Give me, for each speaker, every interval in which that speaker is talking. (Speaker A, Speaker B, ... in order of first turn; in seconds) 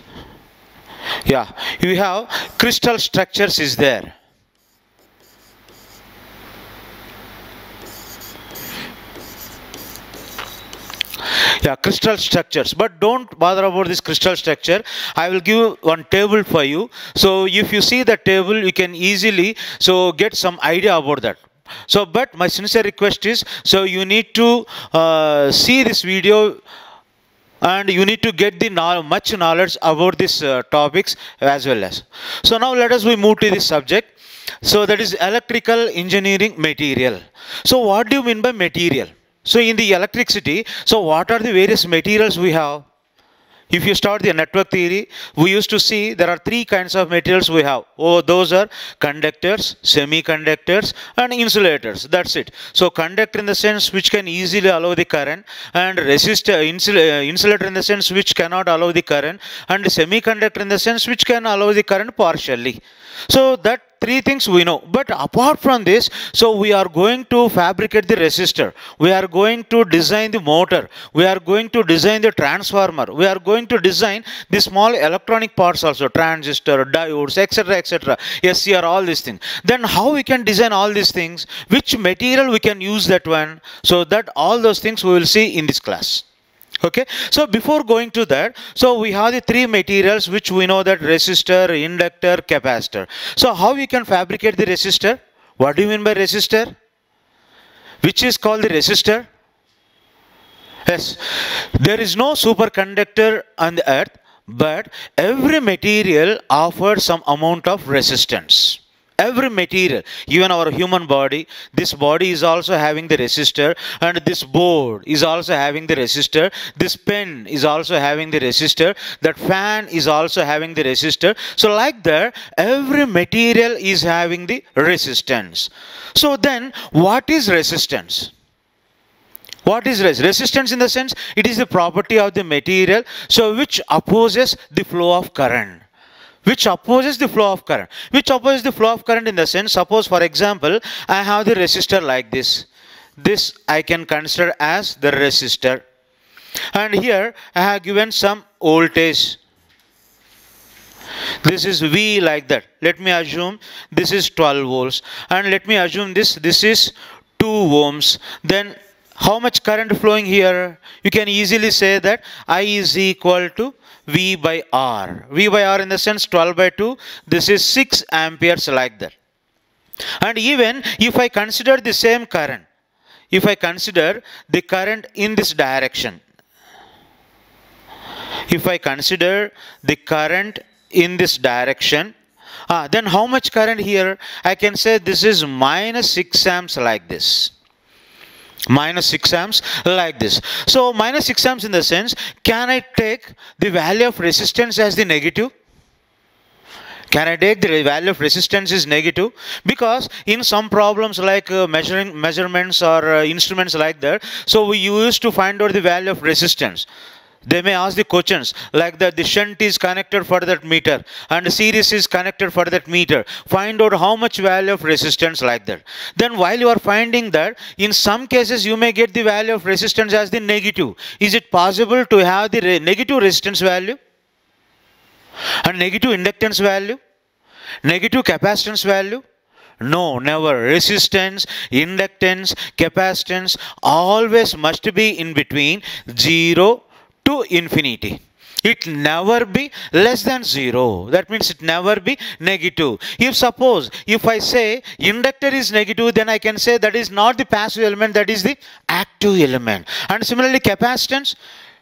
Speaker A: 1.2-4.1, 11.4-26.6, 27.6-34.1, 34.6-42.9, 43.7-86.2, 86.8-96.7, 98.0-99.3, 100.8-128.3, 129.6-135.8, 136.4-142.7, 143.2-145.8, 146.7-149.4, 151.4-169.1, 170.2-172.6, 173.3-176.2, 178.5-182.1, 182.7-187.5, 188.7-195.5, 197.1-206.9, 207.4-224.0, 225.6-227.0, 227.8-229.2, 229.8-251.4